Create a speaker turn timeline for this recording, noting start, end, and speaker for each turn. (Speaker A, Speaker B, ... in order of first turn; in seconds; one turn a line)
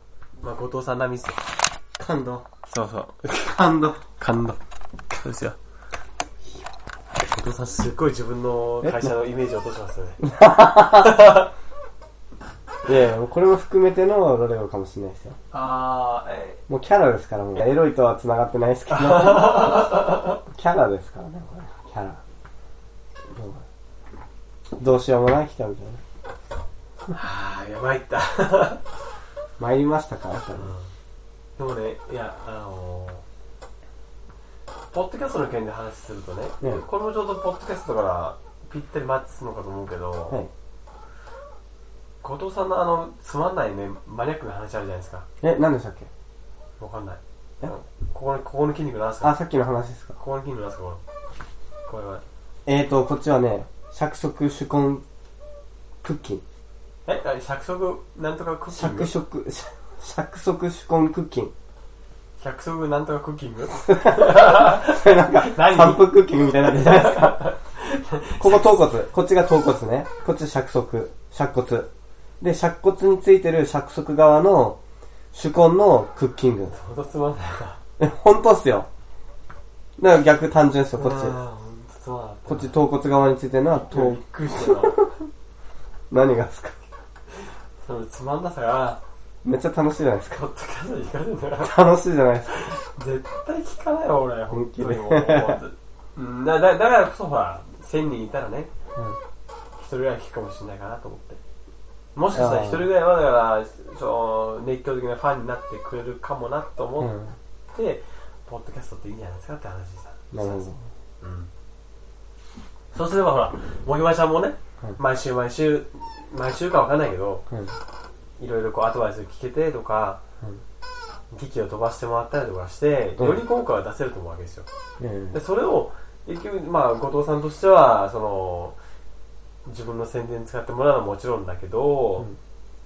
Speaker A: 0.4-1.4
Speaker B: 2.0-2.5
Speaker A: 2.7-4.6
Speaker B: 3.6-4.0
Speaker A: 5.1-5.6
Speaker A: 7.2-10.2
Speaker B: 10.2-11.1
Speaker A: 10.9-11.5
Speaker B: 12.9-15.4
Speaker A: 15.5-16.6
Speaker B: 16.7-19.9
Speaker A: 18.9-20.4
Speaker B: 20.5-22.2
Speaker B: 23.3-23.6
Speaker B: 24.8-26.0
Speaker A: 27.1-29.0
Speaker B: 29.6-30.7
Speaker A: 30.6-30.9
Speaker A: 31.6-33.2
Speaker A: 34.9-40.4
Speaker A: 42.2-45.3
Speaker B: 45.4-46.1
Speaker A: 46.8-49.3
Speaker B: 49.2-50.2
Speaker A: 50.2-51.0
Speaker A: 51.9-52.2
Speaker B: 52.7-55.0
Speaker B: 56.0-56.4
Speaker A: 57.1-59.1
Speaker B: 58.8-61.5
Speaker A: 62.4-68.8
Speaker B: 64.0-67.4
Speaker B: 68.4-71.9
Speaker B: 72.4-74.8
Speaker B: 75.3-76.8
Speaker A: 76.7-77.8
Speaker B: 78.0-78.9
Speaker B: 80.0-81.4
Speaker A: 81.0-82.8
Speaker B: 82.5-84.8
Speaker A: 83.7-85.0
Speaker B: 86.1-86.9
Speaker A: 87.3-89.0
Speaker B: 89.4-90.4
Speaker A: 90.3-91.7
Speaker B: 91.6-92.7
Speaker A: 92.5-98.7
Speaker B: 94.7-95.6
Speaker A: 99.8-101.4
Speaker A: 102.2-107.2
Speaker B: 102.3-102.9
Speaker B: 107.0-107.4
Speaker A: 107.7-110.7
Speaker B: 110.3-110.8
Speaker A: 111.2-111.5
Speaker A: 112.9-117.4
Speaker B: 117.5-117.8
Speaker A: 118.4-120.2
Speaker A: 121.3-124.7
Speaker B: 125.0-125.4
Speaker A: 125.3-128.8
Speaker A: 129.7-132.3